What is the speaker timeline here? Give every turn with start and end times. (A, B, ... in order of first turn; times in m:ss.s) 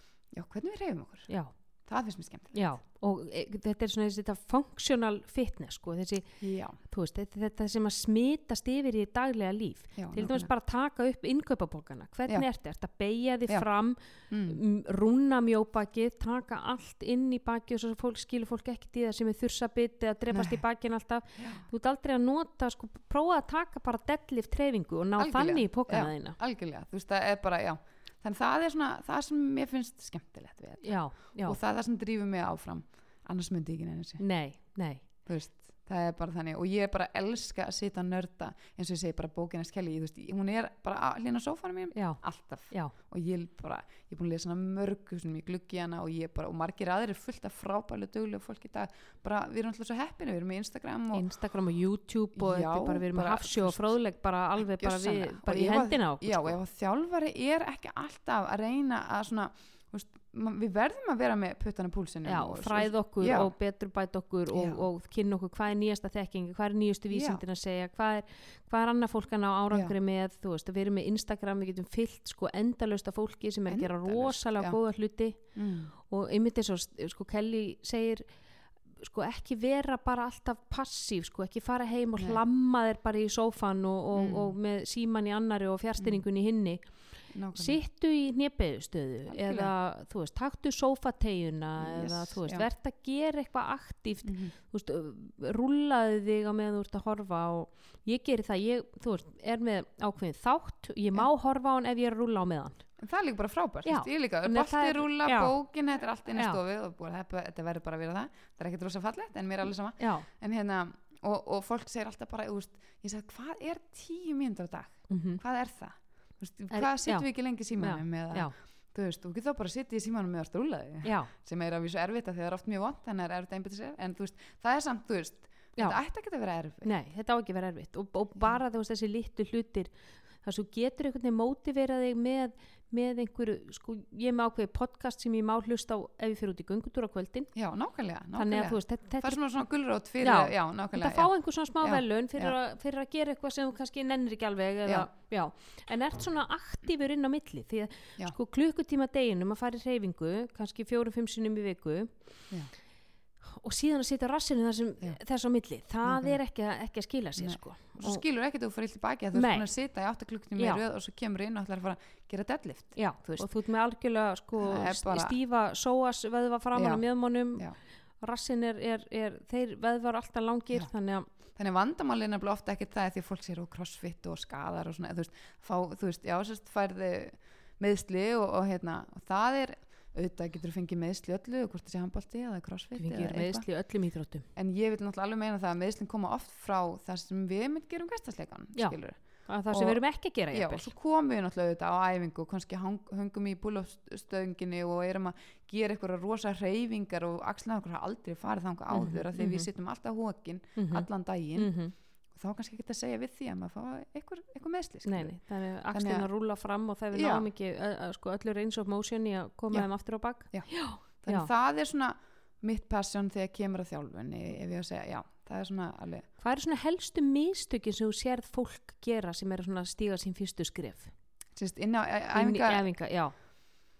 0:00.3-0:01.3 A
0:01.3-0:01.5 B
0:01.8-0:02.7 A
0:02.5-0:26.4 B
0:06.4-0:06.8 A
0:10.0-0:10.5 A
0:14.3-0:14.6 A
0:20.3-0:20.6 A
0:21.4-0:21.7 A
0:25.2-0:34.2 A
0:30.8-0:31.6 B
0:34.2-0:35.0 B
0:35.2-0:51.2 A
0:41.9-0:42.9 B
0:51.1-0:56.6 B
0:52.4-0:53.9 A
0:54.6-1:03.5 A
1:02.2-1:15.4 B
1:04.5-1:04.8 A
1:07.1-1:07.4 A
1:13.7-1:14.8 A
1:15.5-1:15.9 A
1:16.0-1:18.2 B
1:19.0-1:26.9 B
1:24.1-1:24.6 A
1:26.0-1:26.2 A
1:27.3-1:27.8 A
1:27.6-1:42.8 B
1:29.3-1:29.7 A
1:31.8-1:32.7 A
1:34.2-1:34.5 A
1:43.0-2:06.9 A
1:43.8-1:45.6 B
1:46.3-1:46.6 B
1:50.0-1:50.3 B
1:55.1-1:55.4 B
1:56.7-1:58.5 B
2:01.0-2:01.3 B
2:06.8-2:17.5 B
2:17.5-2:22.6 A
2:18.4-2:19.4 B
2:20.2-2:32.2 B
2:33.5-2:38.2 B
2:36.0-2:36.4 A
2:37.4-2:43.5 A
2:39.3-2:39.7 B
2:40.6-2:40.8 B
2:42.9-2:51.3 B
2:44.6-2:45.4 A
2:46.7-2:47.8 A
2:51.6-3:03.7 A
3:03.0-3:04.4 B
3:04.6-3:21.8 A
3:08.7-3:10.9 B
3:18.9-3:19.7 B
3:20.8-3:21.9 B
3:22.3-3:25.4 A
3:25.0-3:31.5 B
3:25.9-3:26.3 A
3:27.1-3:27.4 A
3:29.7-3:36.3 A
3:36.4-3:41.1 B
3:41.6-3:42.8 A
3:42.3-3:43.3 B